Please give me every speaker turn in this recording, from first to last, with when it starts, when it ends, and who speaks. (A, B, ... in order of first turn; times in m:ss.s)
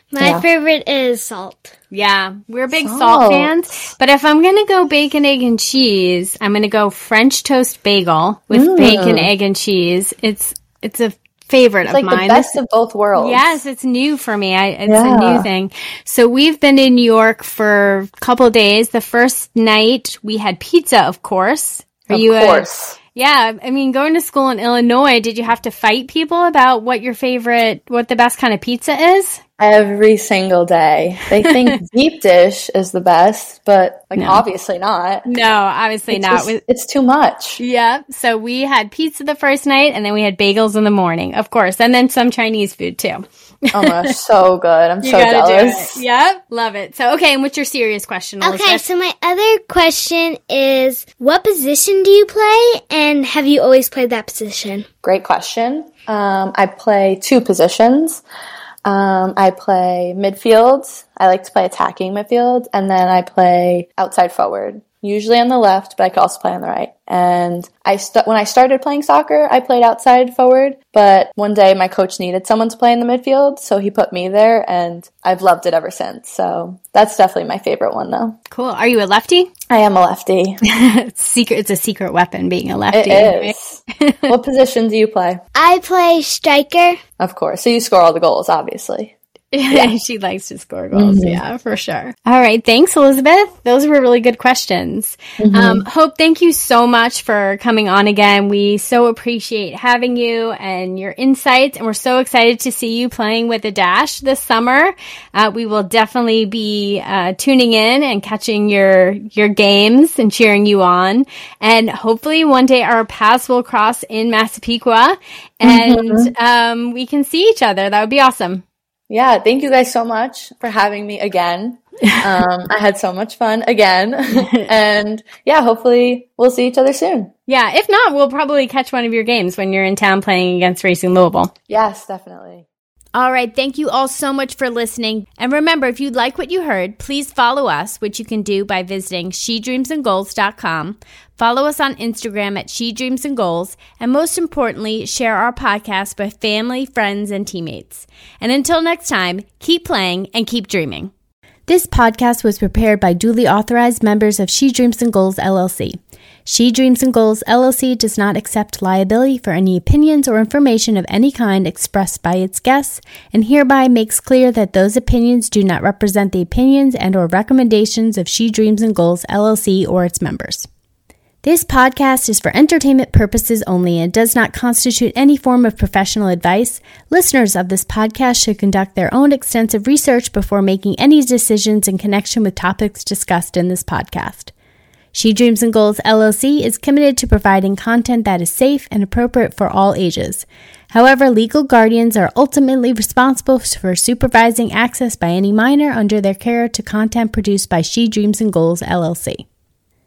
0:00.1-0:01.7 A
0:00.2-0:00.4 B
0:01.9-0:12.5 C
0:02.7-0:03.9 B
0:08.5-0:09.3 B
0:11.8-0:13.6 B
0:13.1-0:29.4 C
0:14.8-0:15.5 B
0:22.1-0:23.0 B
0:29.6-0:35.3 B
0:34.1-0:34.4 C
0:35.2-0:36.6 C
0:36.1-0:37.6 B
0:37.6-0:44.1 C
0:43.7-0:46.0 B
0:45.0-0:48.8 C
0:48.4-0:54.8 A
0:55.0-0:58.2 B
0:58.8-1:18.4 B
1:18.5-1:19.5 C
1:19.7-1:20.6 B
1:20.6-1:24.3 C
1:22.9-1:25.4 B
1:25.5-1:27.0 A
1:27.2-1:29.1 B
1:29.5-1:58.6 C
1:30.9-1:31.4 B
1:35.4-1:35.8 B
1:55.6-1:56.3 B
1:59.1-2:07.3 B
2:04.4-2:04.7 C
2:07.5-2:11.5 C
2:11.7-2:12.6 B
2:13.1-2:31.1 C
2:31.7-2:50.7 C
2:51.4-3:04.5 C
3:05.1-3:19.4 C